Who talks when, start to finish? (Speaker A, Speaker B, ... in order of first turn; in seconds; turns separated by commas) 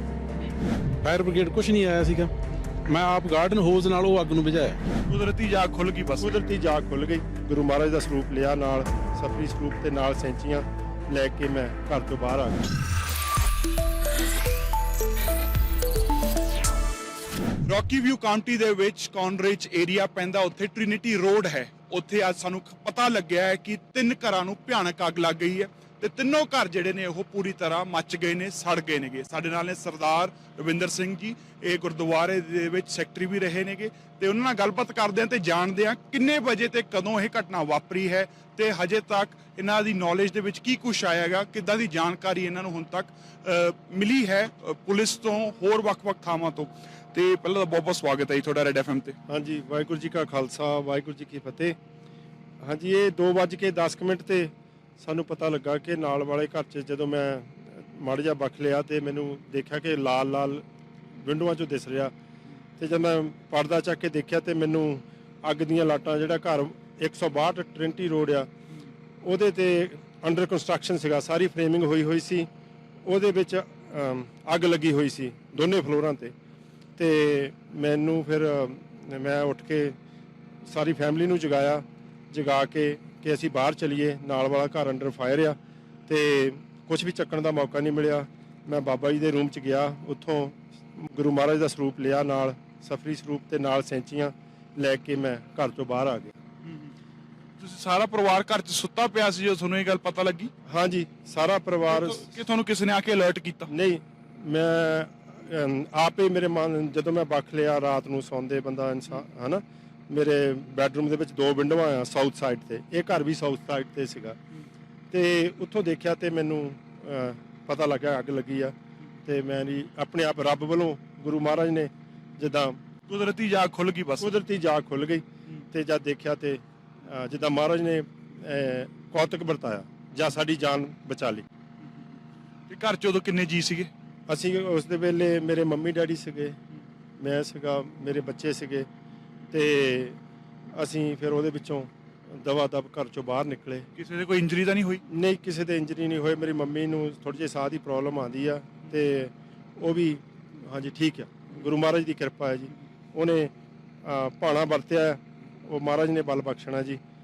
Speaker A: 1.0-2.3, Speaker A: 2.9-4.8, Speaker B: 5.0-6.4, Speaker C: 6.2-12.6, Speaker B: 17.6-49.1, Speaker C: 49.3-51.8, Speaker C: 52.6-60.6, Speaker C: 61.2-62.1, Speaker C: 62.8-68.5, Speaker C: 69.2-72.5, Speaker C: 73.0-76.3, Speaker C: 77.0-80.0, Speaker C: 80.7-96.3, Speaker B: 97.6-100.5, Speaker C: 100.7-102.3, Speaker B: 101.9-103.7, Speaker C: 103.7-114.4, Speaker C: 115.1-118.7, Speaker C: 119.2-122.8, Speaker B: 123.1-124.3, Speaker C: 124.2-131.4, Speaker B: 132.7-133.9, Speaker C: 134.3-136.6, Speaker C: 137.2-138.9, Speaker C: 139.5-140.2, Speaker C: 140.8-143.8, Speaker B: 143.9-145.0, Speaker C: 145.1-153.5, Speaker C: 154.0-157.0